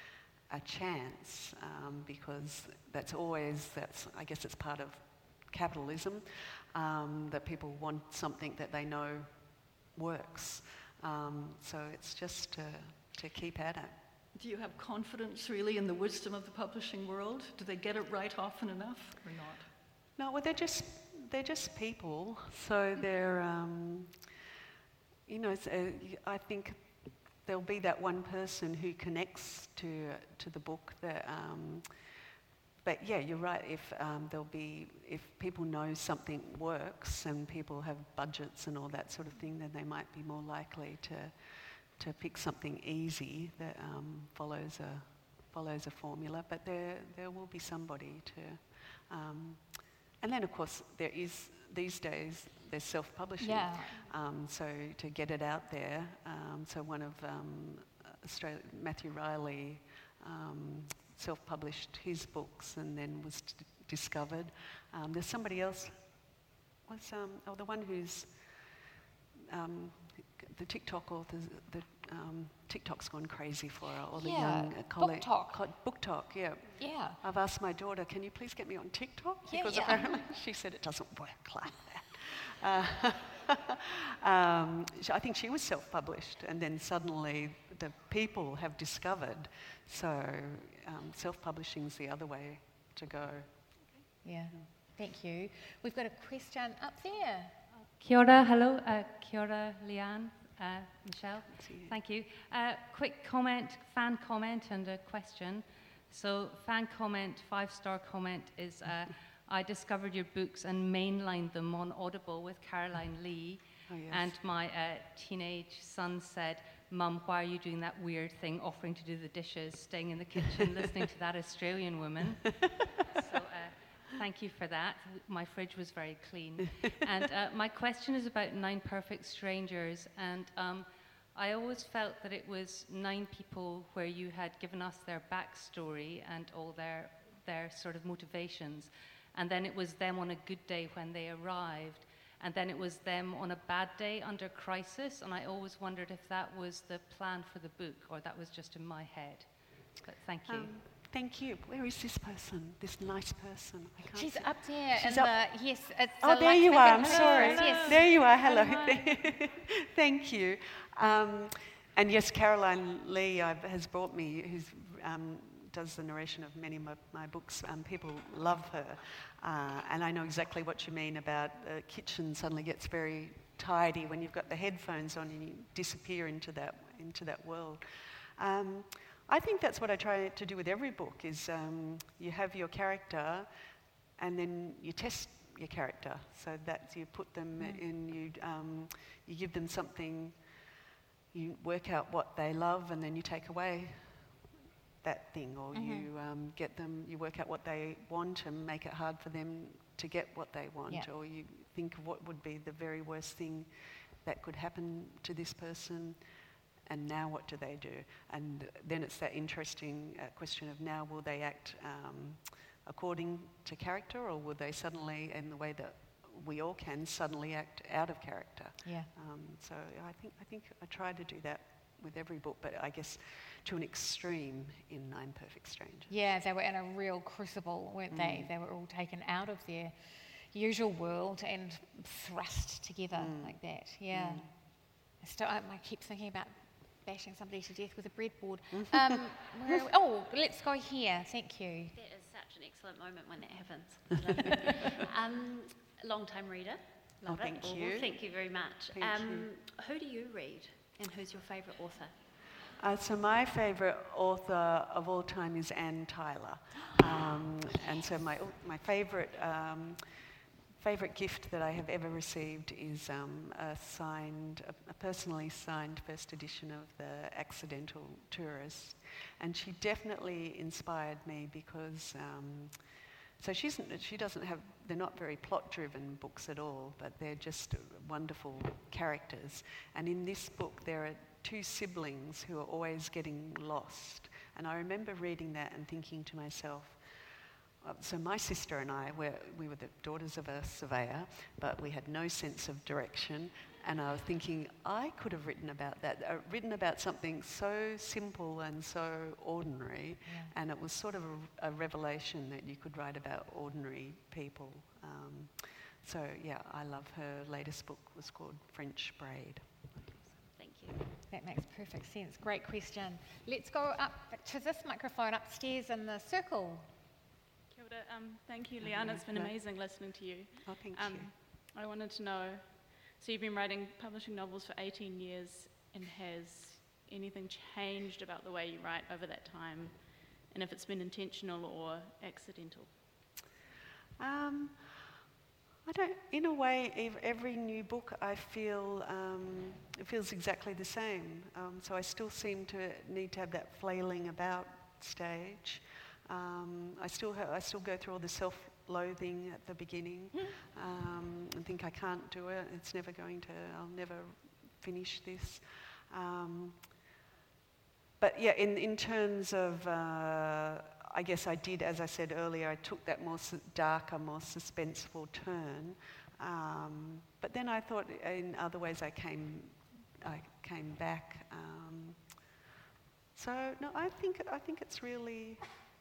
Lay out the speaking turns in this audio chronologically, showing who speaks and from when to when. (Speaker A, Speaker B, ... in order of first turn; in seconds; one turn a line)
Speaker A: 0.5-14.0
Speaker B: 14.3-19.7
Speaker A: 20.2-24.3
Speaker A: 25.3-32.1
Speaker A: 32.8-66.0
Speaker C: 53.4-54.1
Speaker A: 66.9-68.7
Speaker A: 69.5-93.5
Speaker C: 74.2-75.6
Speaker C: 76.8-77.2
Speaker C: 79.5-80.2
Speaker C: 94.2-97.5
Speaker D: 98.0-150.8
Speaker A: 101.5-102.0
Speaker A: 113.9-114.3
Speaker A: 150.5-155.4
Speaker C: 154.1-158.1
Speaker A: 156.2-183.5
Speaker D: 156.9-159.3
Speaker A: 184.2-190.4
Speaker C: 187.6-187.8
Speaker A: 191.3-194.3
Speaker A: 195.0-206.2
Speaker C: 195.7-196.1
Speaker A: 206.9-226.1
Speaker C: 218.8-219.1
Speaker C: 226.1-229.9
Speaker A: 228.1-228.5
Speaker C: 230.5-242.0
Speaker A: 233.1-234.5
Speaker A: 238.9-239.2
Speaker E: 241.9-252.1
Speaker A: 247.2-248.2
Speaker A: 248.9-249.5
Speaker A: 252.8-287.0
Speaker A: 287.8-309.9
Speaker C: 300.2-300.5
Speaker E: 310.2-311.0
Speaker C: 311.3-316.9
Speaker F: 317.7-333.0
Speaker A: 318.8-319.6
Speaker A: 320.6-321.3
Speaker A: 334.2-334.9
Speaker A: 335.8-356.9
Speaker A: 358.2-372.4
Speaker A: 373.4-375.7